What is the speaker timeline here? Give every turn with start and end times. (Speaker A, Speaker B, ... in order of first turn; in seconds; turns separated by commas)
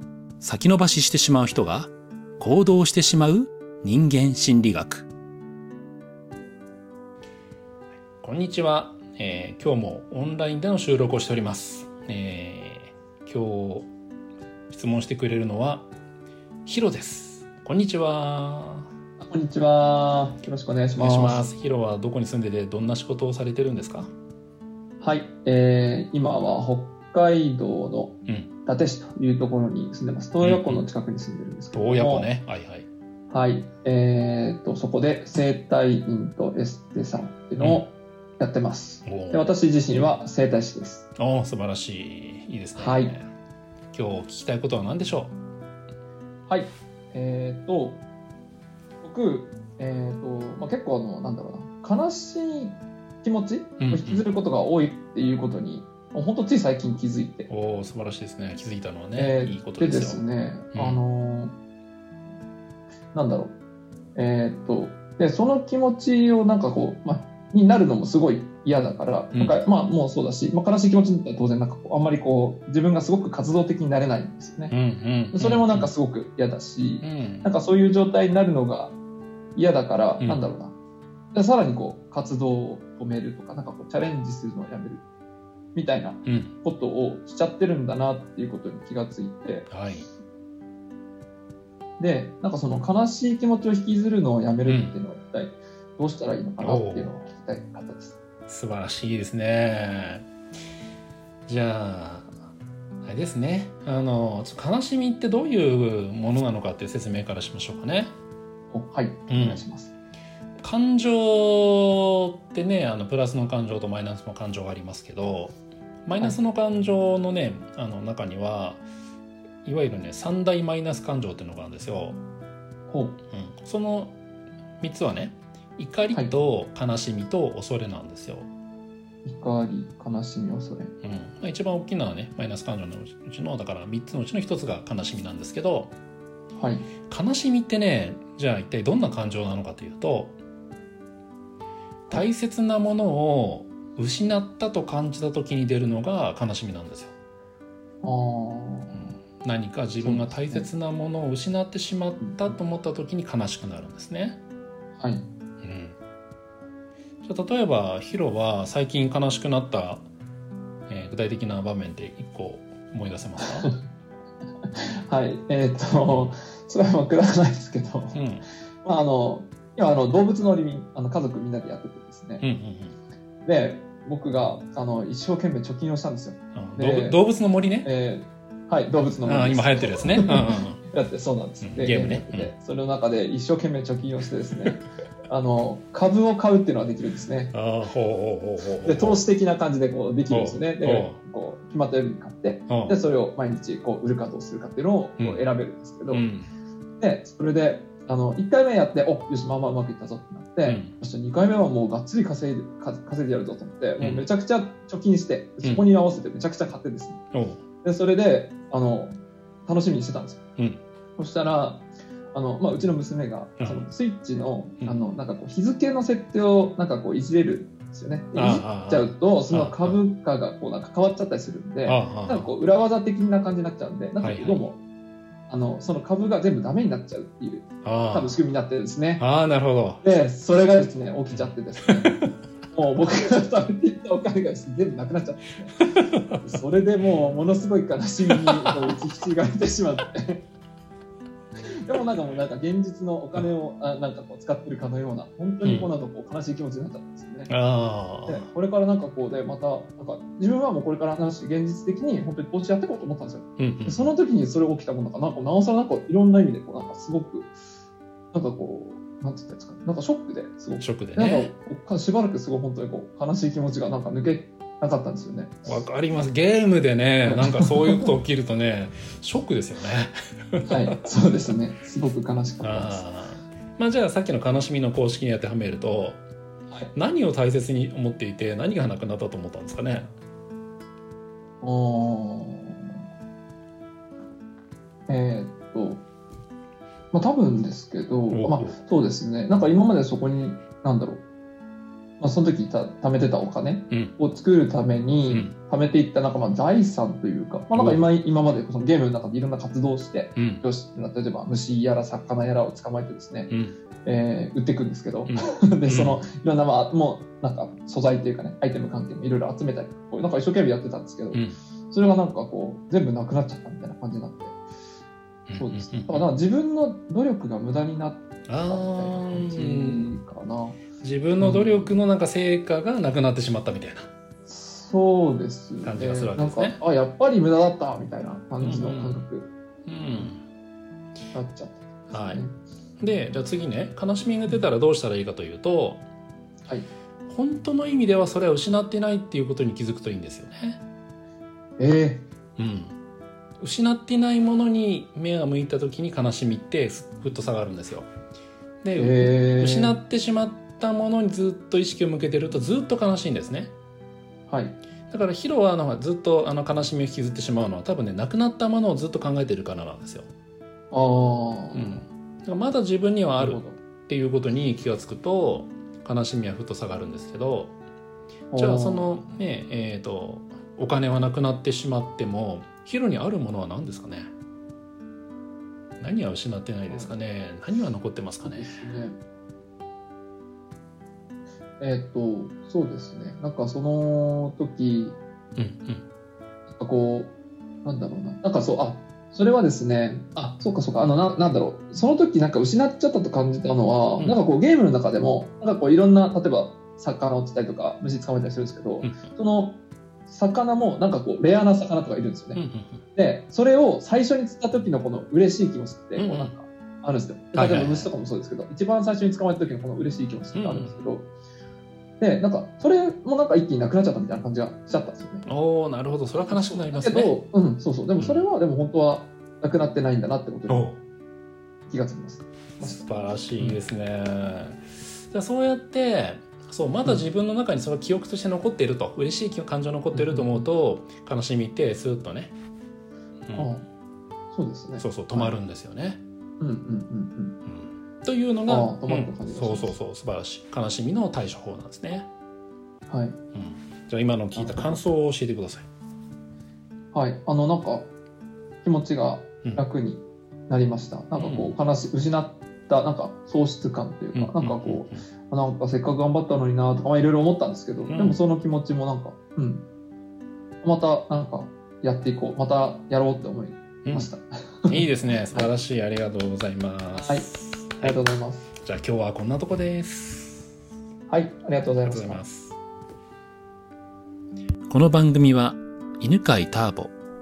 Speaker A: 0.4-5.1, Speaker A: 8.2-13.9, Speaker A: 14.7-15.9, Speaker A: 16.7-18.9, Speaker B: 19.2-21.5, Speaker A: 21.0-24.1, Speaker B: 25.0-28.1, Speaker B: 28.7-32.3, Speaker A: 30.4-30.8, Speaker A: 31.7-32.9, Speaker B: 33.3-41.1, Speaker A: 39.0-39.5, Speaker A: 41.2-43.3, Speaker B: 42.8-43.1, Speaker A: 43.9-45.4, Speaker B: 46.5-48.0, Speaker B: 49.0-57.5, Speaker A: 53.8-54.2, Speaker A: 57.5-61.0, Speaker B: 59.1-61.5, Speaker B: 63.1-63.5, Speaker B: 64.2-74.8, Speaker A: 74.7-75.9, Speaker B: 75.3-78.9, Speaker A: 77.0-77.5, Speaker B: 79.6-80.7, Speaker B: 81.3-85.0, Speaker B: 85.8-89.7, Speaker A: 86.2-86.5, Speaker A: 89.7-90.1, Speaker B: 92.0-98.2, Speaker A: 94.7-95.0, Speaker A: 96.6-97.3, Speaker A: 98.5-100.3, Speaker A: 101.5-102.3, Speaker A: 103.0-108.1, Speaker B: 108.7-109.9, Speaker A: 109.3-109.7, Speaker A: 110.6-118.8, Speaker A: 119.7-122.2, Speaker B: 122.9-123.2, Speaker A: 123.3-124.2, Speaker A: 124.8-128.5, Speaker B: 129.2-130.9, Speaker A: 131.0-135.9, Speaker B: 136.6-136.9, Speaker A: 137.1-140.4, Speaker A: 142.1-147.1, Speaker B: 148.0-149.1, Speaker A: 148.9-154.4, Speaker B: 150.0-150.7, Speaker B: 155.0-155.2, Speaker A: 155.6-156.0, Speaker A: 157.2-160.1, Speaker A: 160.9-163.7, Speaker B: 163.4-163.7, Speaker B: 164.7-168.2, Speaker A: 166.0-166.3, Speaker A: 168.1-168.5, Speaker B: 168.8-172.4, Speaker A: 172.4-172.9, Speaker B: 173.4-177.2, Speaker A: 176.5-177.9, Speaker B: 177.8-187.5, Speaker A: 179.2-180.8, Speaker A: 181.6-182.5, Speaker A: 187.5-189.2, Speaker B: 188.8-196.2, Speaker A: 190.3-191.2, Speaker A: 192.7-192.9, Speaker A: 196.1-196.5, Speaker B: 197.0-207.2, Speaker A: 200.7-200.9, Speaker A: 204.0-204.2, Speaker A: 207.3-207.6, Speaker B: 207.8-210.4, Speaker A: 210.6-210.8, Speaker B: 211.2-224.8, Speaker A: 213.6-213.8, Speaker A: 218.3-220.0, Speaker A: 221.9-222.5, Speaker A: 224.2-224.7, Speaker B: 225.5-229.2, Speaker A: 227.8-228.4, Speaker A: 229.2-230.0, Speaker B: 230.0-232.1, Speaker A: 231.3-231.9, Speaker B: 232.7-235.8, Speaker A: 235.8-236.4, Speaker B: 236.3-240.4, Speaker A: 238.5-238.7, Speaker B: 241.9-247.5, Speaker A: 245.6-245.9, Speaker A: 247.5-248.5, Speaker B: 248.3-257.5, Speaker A: 253.6-254.1, Speaker B: 258.3-265.7, Speaker A: 260.8-261.5, Speaker A: 265.7-270.8, Speaker B: 267.2-268.1, Speaker B: 270.7-273.0, Speaker A: 272.6-276.2, Speaker A: 276.9-280.1, Speaker B: 281.6-283.0, Speaker B: 285.1-286.0, Speaker B: 287.1-291.2, Speaker A: 288.3-288.8, Speaker B: 292.2-303.5, Speaker A: 295.3-295.6, Speaker A: 297.7-298.0, Speaker A: 300.4-300.6, Speaker B: 304.1-314.6, Speaker A: 305.3-306.2, Speaker A: 311.3-311.6, Speaker A: 315.5-316.2, Speaker B: 315.6-320.8, Speaker A: 318.5-320.1, Speaker A: 321.0-324.1, Speaker B: 321.4-321.9, Speaker B: 324.5-329.5, Speaker A: 325.8-326.8, Speaker A: 328.6-329.2, Speaker A: 329.9-330.4, Speaker B: 331.3-332.5, Speaker A: 332.1-332.4, Speaker A: 333.0-336.0, Speaker A: 337.3-340.8, Speaker B: 341.8-342.3, Speaker A: 342.6-343.0, Speaker A: 343.6-348.1, Speaker A: 348.8-353.7, Speaker B: 349.0-350.0, Speaker B: 354.5-354.8, Speaker A: 355.1-360.3, Speaker B: 360.9-362.0, Speaker A: 361.7-367.8, Speaker B: 363.4-363.8, Speaker B: 368.5-369.1, Speaker A: 368.6-374.3, Speaker A: 376.0-378.8, Speaker B: 378.4-379.2, Speaker B: 381.8-385.2, Speaker A: 385.6-386.0, Speaker B: 386.7-387.3, Speaker B: 387.9-402.6, Speaker A: 399.0-399.3, Speaker A: 402.6-403.0, Speaker B: 403.2-411.3, Speaker A: 406.2-406.5, Speaker A: 407.5-408.1, Speaker A: 410.5-410.9, Speaker B: 412.2-415.5, Speaker A: 415.5-417.4, Speaker B: 416.5-420.9, Speaker A: 418.2-418.5, Speaker A: 420.7-421.0, Speaker B: 421.9-423.0, Speaker A: 422.8-432.5, Speaker B: 430.1-430.7, Speaker B: 433.6-433.8, Speaker B: 434.5-435.6, Speaker A: 435.0-436.2, Speaker B: 436.6-437.6, Speaker A: 437.6-442.3, Speaker B: 438.7-440.0, Speaker B: 443.1-443.4, Speaker A: 443.5-445.9, Speaker B: 444.6-445.0, Speaker B: 447.1-448.1, Speaker B: 448.8-459.8, Speaker A: 451.4-451.8, Speaker A: 454.3-455.2, Speaker A: 458.1-458.4, Speaker B: 460.8-465.0, Speaker A: 464.9-468.2, Speaker B: 467.1-467.5, Speaker B: 468.0-468.7, Speaker A: 468.8-470.7, Speaker B: 471.3-472.4, Speaker A: 472.1-472.8, Speaker A: 474.9-477.1